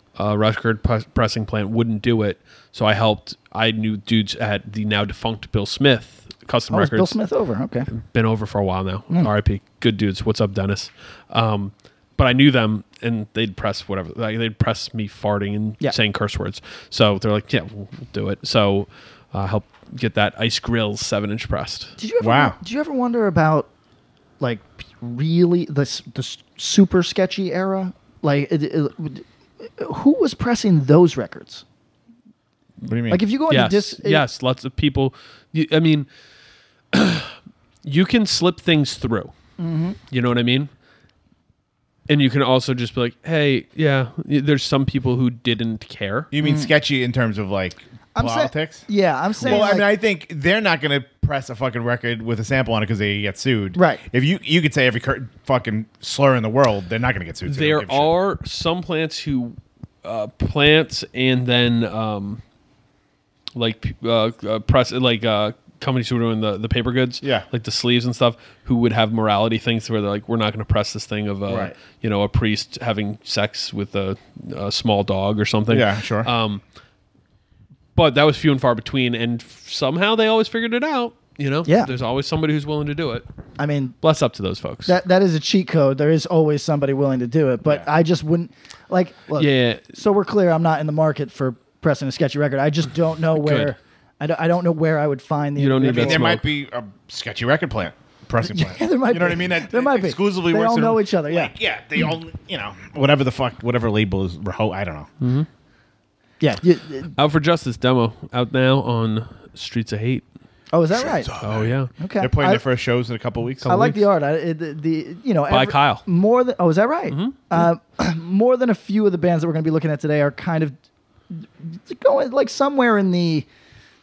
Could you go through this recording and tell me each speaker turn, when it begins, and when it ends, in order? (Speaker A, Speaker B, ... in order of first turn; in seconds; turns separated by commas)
Speaker A: 0.2-7.2, Speaker B: 6.7-7.9, Speaker A: 7.9-22.0, Speaker B: 22.0-23.7, Speaker C: 22.2-22.6, Speaker B: 24.4-31.6, Speaker C: 32.8-33.2, Speaker B: 33.1-34.2, Speaker A: 33.5-36.1, Speaker A: 36.9-39.3, Speaker B: 39.6-40.0, Speaker A: 40.1-40.7, Speaker A: 42.1-46.3, Speaker C: 46.3-48.9, Speaker B: 46.4-46.7, Speaker B: 48.1-49.9, Speaker A: 49.4-49.7, Speaker C: 49.4-58.2, Speaker B: 53.8-54.0, Speaker A: 57.5-62.4, Speaker A: 63.5-76.6, Speaker C: 67.2-67.5, Speaker C: 71.5-71.8, Speaker C: 75.7-76.3, Speaker A: 78.0-83.3, Speaker B: 81.7-81.9, Speaker B: 83.6-84.0, Speaker A: 84.0-85.0, Speaker B: 84.9-96.3, Speaker A: 89.4-89.9, Speaker A: 93.3-93.7, Speaker A: 95.6-96.5, Speaker C: 95.8-105.1, Speaker B: 98.5-101.5, Speaker A: 105.2-105.5, Speaker B: 106.4-107.1, Speaker A: 107.2-110.3, Speaker B: 110.7-111.3, Speaker C: 110.9-113.8, Speaker A: 111.4-111.9, Speaker B: 112.0-112.6, Speaker A: 113.6-114.0, Speaker B: 113.7-120.8, Speaker A: 115.5-116.1, Speaker A: 117.1-117.7, Speaker B: 121.3-123.5